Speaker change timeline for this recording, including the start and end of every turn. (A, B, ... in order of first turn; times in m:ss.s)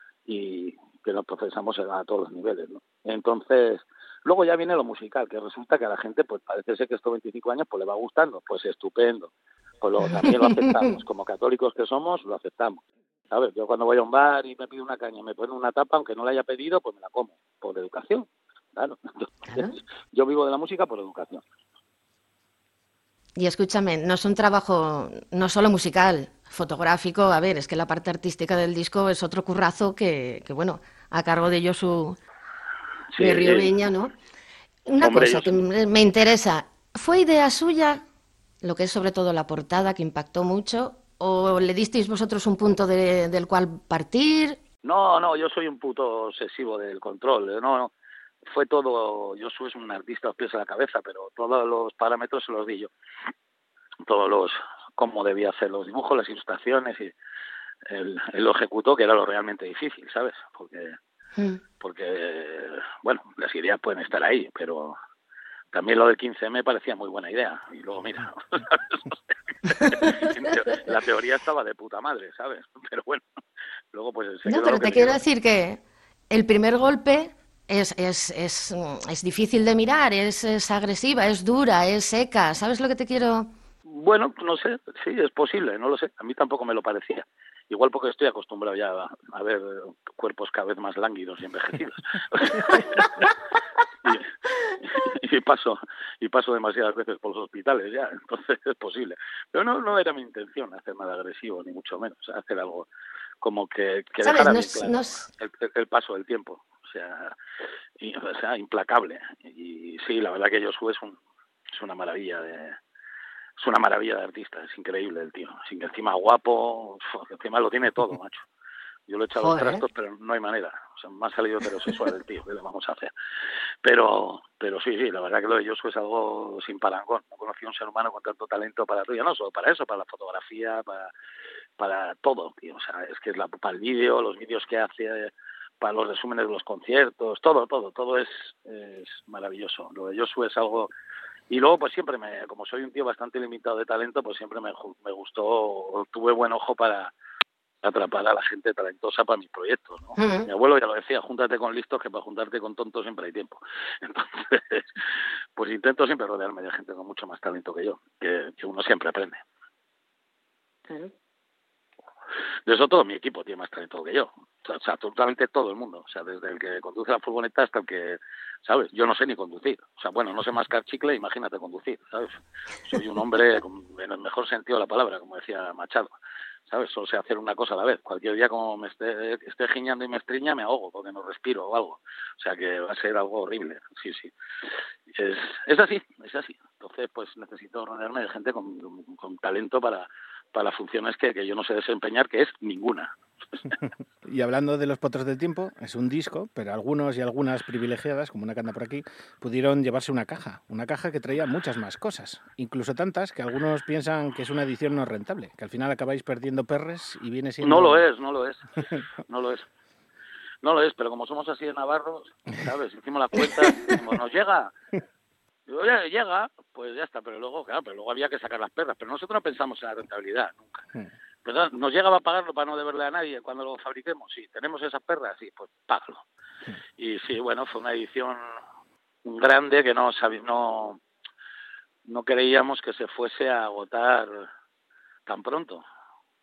0:00.2-0:09.3 A
0:09.8-0:21.4 A
0:23.4-0:32.2 B
0:33.1-0:33.7 A
0:33.2-0:34.1 B
0:34.9-0:38.0 B
0:35.0-0:35.6 A
0:38.6-0:44.6 B
0:44.8-0:47.9 A
0:48.4-0:52.9 A
0:54.0-0:57.1 A
0:57.8-1:00.9 A
1:01.8-1:05.0 A
1:05.7-1:09.2 A
1:09.9-1:13.2 A
1:13.9-1:15.2 A
1:14.4-1:15.8 B
1:16.3-1:23.5 B
1:23.8-1:33.2 A
1:34.8-1:42.9 A
1:43.4-1:47.3 A
1:44.2-1:45.2 B
1:48.0-1:51.2 A
1:51.7-1:52.8 A
1:53.6-1:58.4 A
1:59.1-2:03.1 A
1:59.4-1:59.8 B
2:03.8-2:11.1 A
2:11.8-2:20.9 A
2:21.5-2:27.1 A
2:27.8-2:34.8 A
2:30.2-2:30.5 B
2:35.6-2:39.4 A
2:42.7-2:52.4 A
2:52.9-2:56.1 A
2:56.7-3:04.3 A
3:05.1-3:13.1 A
3:14.2-3:28.0 C
3:27.6-3:28.6 A
3:29.3-3:29.6 A
3:30.6-3:34.7 A
3:33.7-3:34.0 C
3:35.7-3:40.8 A
3:41.4-3:46.2 A
3:47.0-3:48.4 A
3:49.2-3:51.0 A
3:52.1-3:54.5 A
3:55.3-3:55.8 A